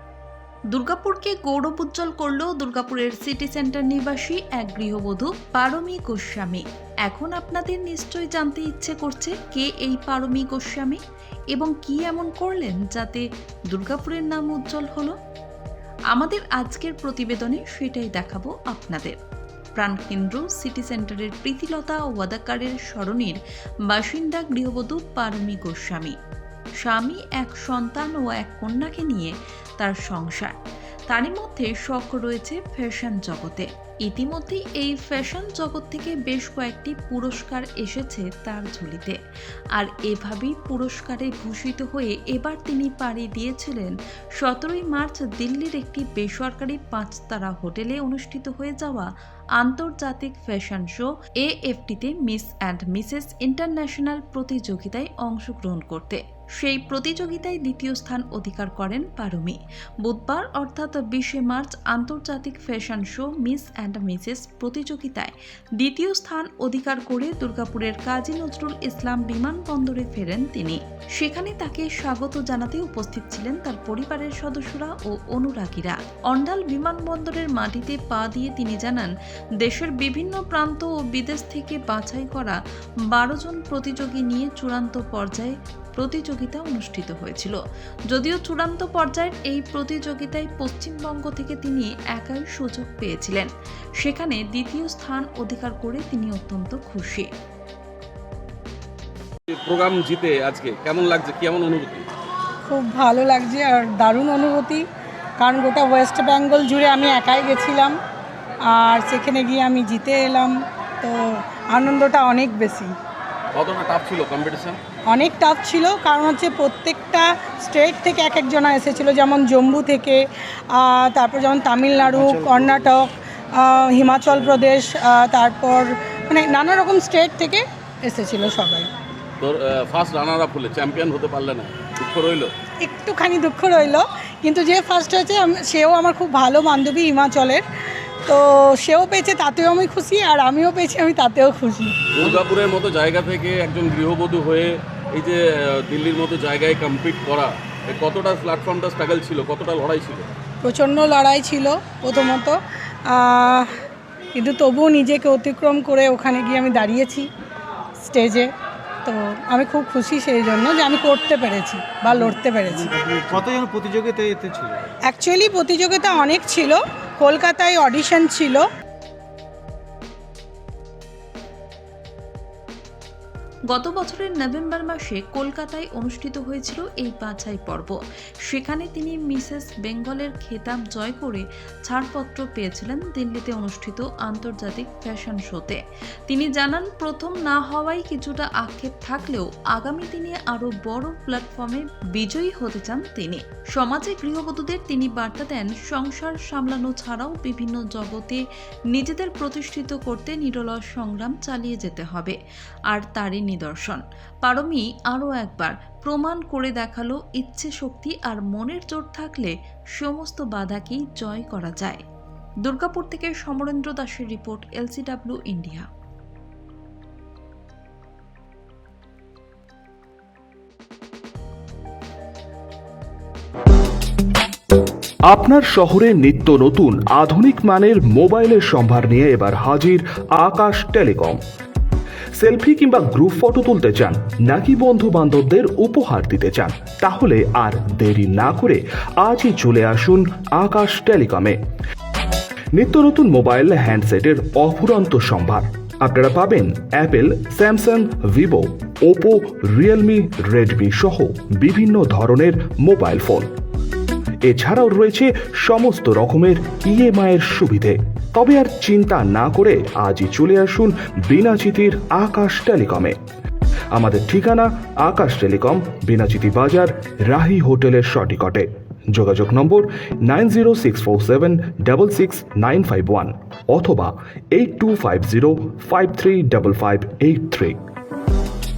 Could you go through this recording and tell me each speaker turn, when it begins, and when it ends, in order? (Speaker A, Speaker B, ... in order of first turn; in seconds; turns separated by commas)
Speaker A: 0.7-11.0, Speaker A: 11.5-15.1, Speaker A: 16.1-19.2, Speaker A: 19.8-23.4, Speaker A: 23.9-26.1, Speaker A: 26.8-30.5, Speaker A: 31.1-39.2, Speaker A: 39.8-79.1, Speaker A: 79.6-82.6, Speaker A: 83.1-87.6, Speaker A: 88.1-93.5, Speaker A: 94.0-97.3, Speaker B: 99.5-102.1, Speaker C: 102.7-104.8, Speaker C: 105.4-108.0, Speaker C: 108.7-112.9, Speaker B: 113.5-114.8, Speaker C: 115.1-128.9, Speaker D: 122.1-122.8, Speaker B: 129.4-132.5, Speaker C: 132.8-137.7, Speaker C: 138.2-142.0, Speaker B: 142.2-150.3, Speaker C: 150.6-153.7, Speaker C: 154.3-157.3, Speaker C: 158.0-158.5, Speaker C: 159.1-162.9, Speaker D: 162.8-164.8, Speaker C: 165.1-168.7, Speaker A: 173.7-178.0, Speaker A: 178.5-202.4, Speaker A: 202.9-212.0, Speaker A: 212.6-215.9, Speaker E: 225.3-231.4, Speaker E: 232.4-241.6, Speaker E: 242.8-253.5, Speaker E: 254.4-263.2, Speaker E: 263.9-277.8